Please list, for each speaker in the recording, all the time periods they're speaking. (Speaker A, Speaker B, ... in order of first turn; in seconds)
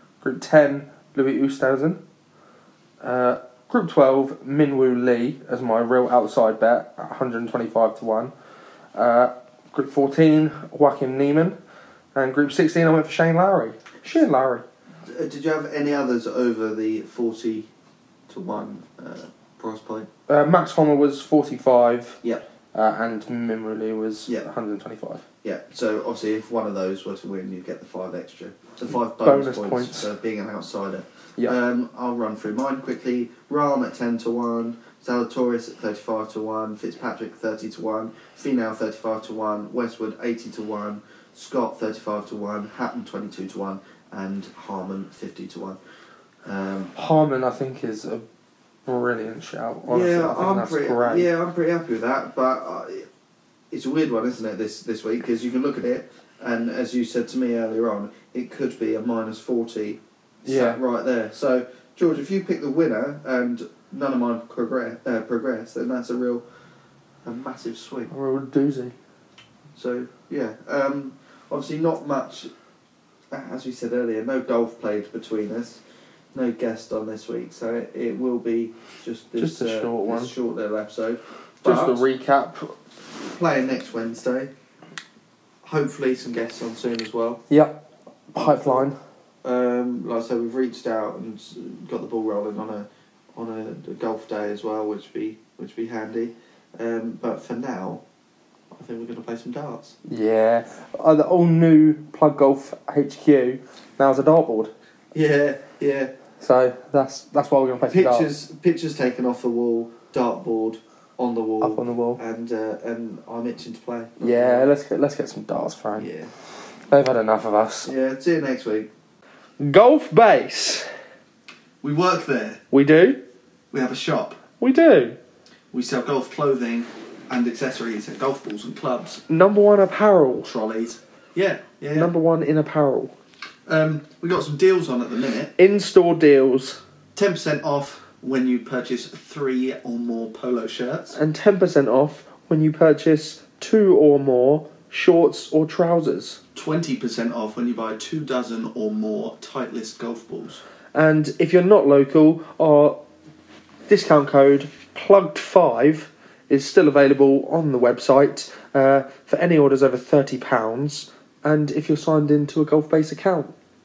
Speaker A: 0.2-2.0, 3.0-8.3, 8.9-11.6, 12.2-14.7, 20.3-22.2, 22.7-25.2, 29.2-30.1, 47.0-48.2, 48.9-51.3, 60.5-60.8, 68.1-68.9, 79.4-80.3, 81.6-82.7, 87.5-87.8, 88.3-89.0, 100.1-104.7, 106.4-108.3, 111.6-112.2, 114.2-116.1, 116.9-117.9, 119.6-120.9, 122.7-123.2, 124.6-125.2, 129.3-130.5, 131.9-133.1, 135.6-136.8, 141.1-146.4, 150.9-153.0, 153.9-163.5
Speaker B: 15.1-17.7, 18.3-20.1, 25.4-45.8, 46.5-46.9, 49.9-53.1, 53.7-66.4, 67.2-68.1, 69.7-72.5, 73.3-75.8, 76.3-82.0, 83.3-84.5, 85.6-87.4, 88.4-88.9, 89.4-98.0, 98.7-100.0, 105.1-106.1, 107.9-114.7, 116.0-116.3, 117.8-118.9, 121.8-122.6, 123.7-124.4, 125.7-129.2, 130.4-132.1, 133.7-135.5, 137.2-141.2, 146.6-150.6